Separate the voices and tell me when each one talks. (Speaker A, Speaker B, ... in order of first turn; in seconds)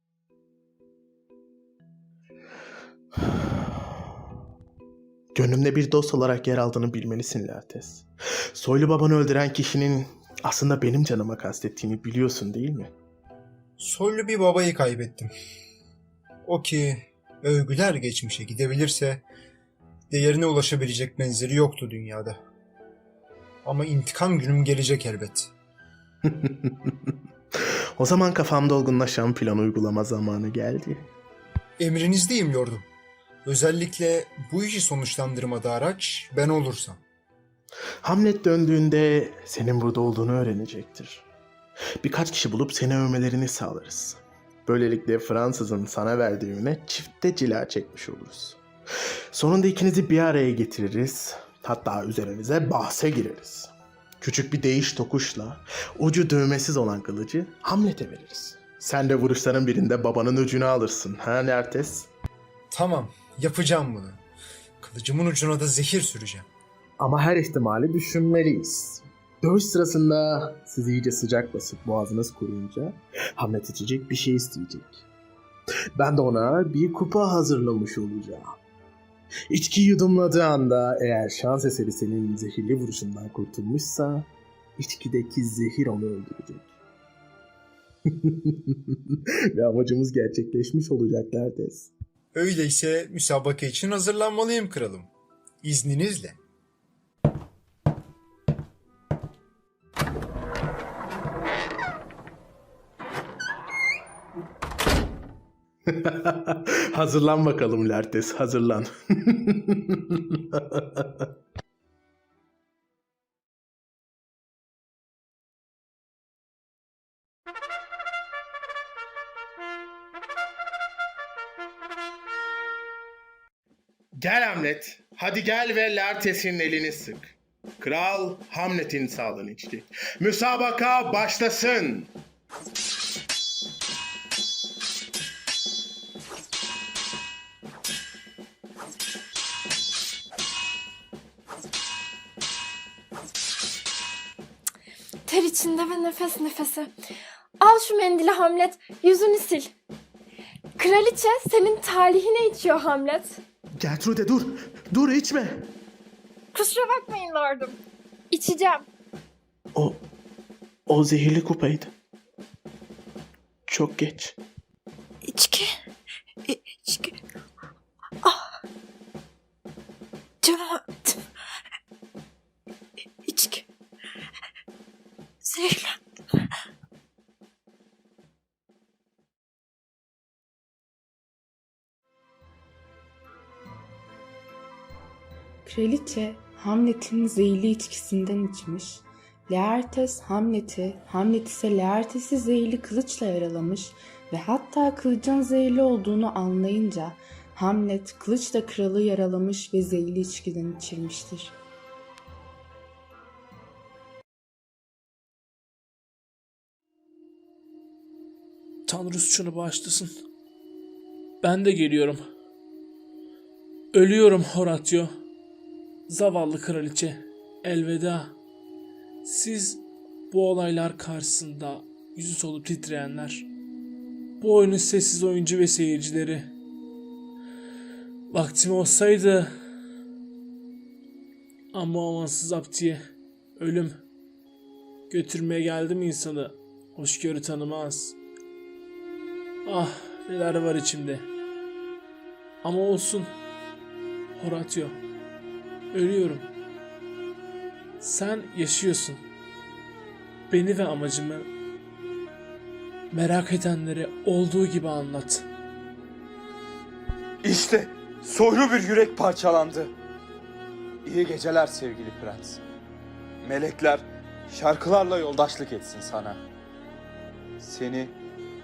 Speaker A: 5.3-12.9, 26.2-27.1, 28.0-31.1, 38.0-41.2, 42.0-48.6, 49.3-62.1, 67.0-75.0, 76.0-78.6, 79.5-86.7, 88.1-91.9, 105.9-111.3, 124.2-132.1, 153.8-155.7, 159.7-160.0, 160.9-161.9, 163.7-164.4
Speaker B: 13.8-15.3, 16.4-19.2, 20.1-22.4, 23.6-25.5, 31.8-32.8, 33.4-37.0, 62.7-64.2, 64.8-66.5, 92.3-95.1, 95.6-96.4
Speaker C: 145.2-146.9, 147.6-149.7, 150.8-153.4, 156.5-157.8, 158.3-158.9
Speaker D: 185.6-201.5
Speaker E: 208.9-210.1, 211.4-212.2, 213.9-215.1, 216.1-218.3, 219.2-223.5, 224.4-226.5, 228.3-229.5, 231.7-233.0, 233.6-233.9, 235.1-238.2, 239.6-241.3, 242.6-243.3, 244.3-245.0, 245.9-246.5, 248.0-249.2, 250.5-251.5, 253.1-255.5
Speaker F: 257.4-259.9, 261.0-262.6, 263.4-266.4, 267.6-268.2